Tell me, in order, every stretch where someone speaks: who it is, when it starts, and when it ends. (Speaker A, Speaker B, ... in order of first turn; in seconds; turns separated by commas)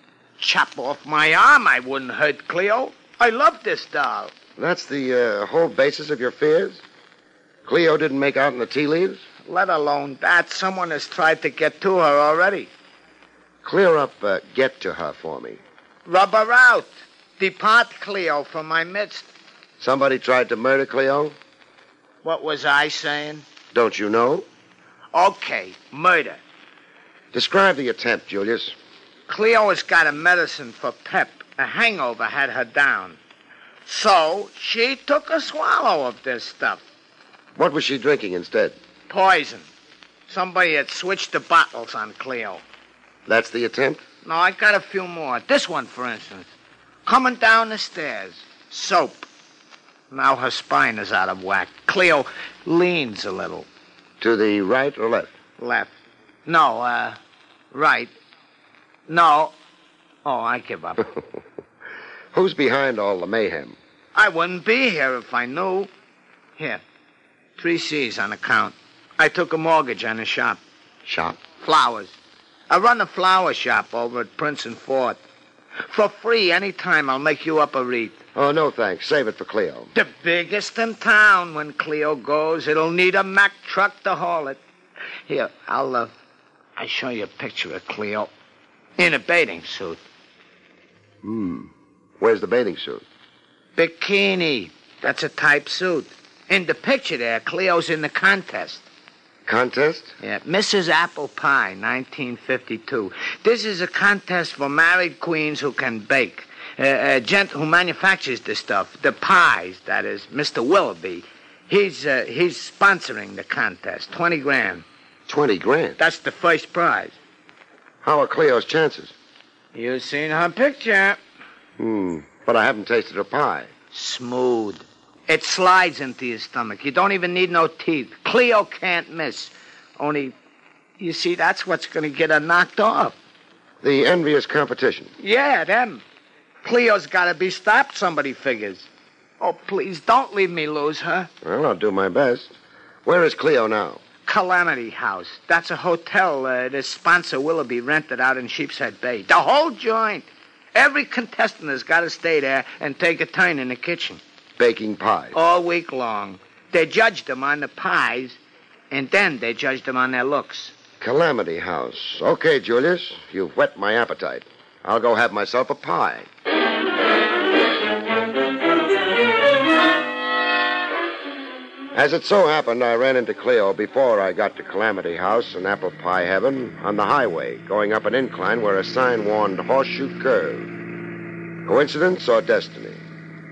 Speaker A: 0.4-4.3, Speaker B: 4.6-6.8, Speaker B: 7.6-9.2, Speaker A: 9.4-12.7, Speaker B: 13.6-15.6, Speaker A: 16.1-19.3, Speaker B: 19.8-21.4, Speaker A: 22.2-23.4, Speaker B: 23.7-24.5, Speaker A: 25.1-26.4, Speaker B: 27.3-28.8, Speaker A: 29.3-33.2, Speaker A: 33.9-36.8, Speaker B: 37.5-38.8, Speaker A: 39.1-39.7, Speaker A: 40.3-42.6, Speaker B: 43.2-44.0, Speaker A: 44.2-46.5, Speaker A: 47.0-49.2, Speaker A: 50.1-53.7, Speaker B: 54.2-55.3, Speaker A: 55.6-57.2, Speaker A: 57.7-58.1, Speaker A: 59.1-59.5, Speaker A: 60.2-61.0, Speaker B: 62.3-63.8, Speaker A: 64.1-65.9, Speaker A: 66.6-66.8, Speaker A: 67.6-70.6, Speaker B: 71.0-71.4, Speaker A: 71.5-72.1, Speaker A: 72.7-75.2, Speaker A: 75.8-78.2, Speaker B: 78.3-79.9, Speaker A: 79.9-84.6, Speaker A: 85.3-86.1, Speaker A: 86.8-88.3, Speaker A: 89.0-90.0, Speaker B: 91.2-93.0, Speaker A: 93.8-98.8, Speaker B: 99.5-100.1, Speaker A: 100.2-114.8, Speaker B: 115.3-116.0, Speaker A: 116.0-117.2, Speaker B: 118.0-119.1, Speaker A: 119.7-121.2, Speaker B: 121.8-123.7, Speaker A: 123.9-130.3, Speaker A: 131.0-133.2, Speaker B: 133.8-135.1, Speaker A: 135.2-136.0, Speaker A: 136.6-138.9, Speaker A: 139.4-141.3, Speaker B: 141.4-144.0, Speaker A: 144.2-154.2, Speaker B: 154.6-155.3, Speaker A: 155.3-158.4, Speaker A: 158.9-160.7, Speaker B: 161.0-166.3, Speaker B: 171.9-180.7, Speaker B: 181.6-183.0